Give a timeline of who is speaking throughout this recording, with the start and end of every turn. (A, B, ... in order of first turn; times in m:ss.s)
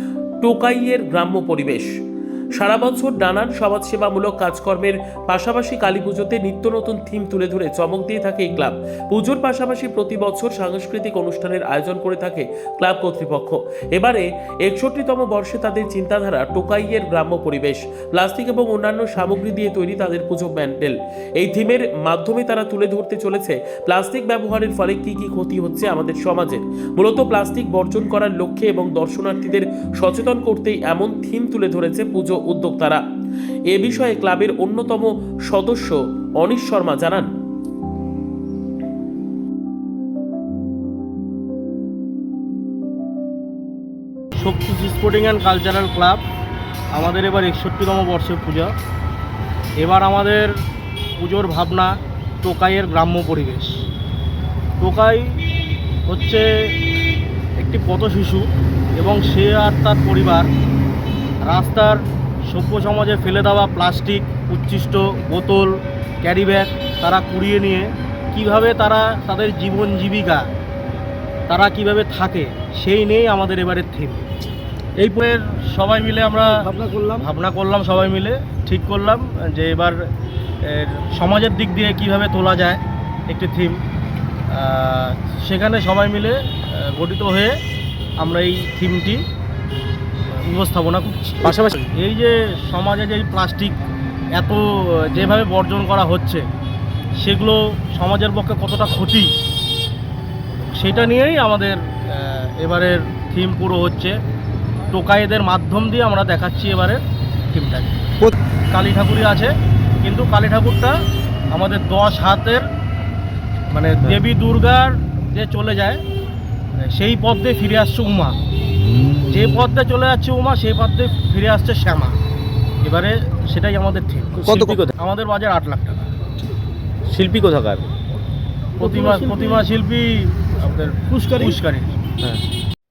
0:00.4-0:01.9 A
0:02.5-0:33.0 A
0:33.7-0:37.3 A
0:44.4-0:46.2 B
0:47.0-0:48.7 B
0:49.8-0:50.5 B
0:51.2-0:53.7 B
0:54.8-0:55.4 B
0:56.1-0:56.4 B
0:57.6-0:58.5 B
0:59.0-1:00.5 B
1:01.4-1:10.4 B
1:11.5-1:14.2 B
1:15.0-1:16.6 B
1:16.5-1:17.3 C
1:17.2-1:20.0 B
1:20.6-1:23.8 B
1:24.5-1:27.5 B
1:28.2-1:29.2 B
1:30.4-1:33.8 B
1:34.3-1:36.4 B
1:37.2-1:39.3 B
1:40.7-1:44.2 B
1:44.9-1:47.0 B
1:47.5-1:48.0 B
1:48.7-1:49.5 B
1:50.0-1:50.9 B
1:51.5-1:52.6 B
1:53.7-1:56.0 B
1:56.8-1:58.3 B
1:59.3-2:02.2 B
2:02.8-2:06.1 B
2:04.4-2:04.9 C
2:07.1-2:07.9 C
2:08.8-2:09.6 C
2:08.8-2:11.9 B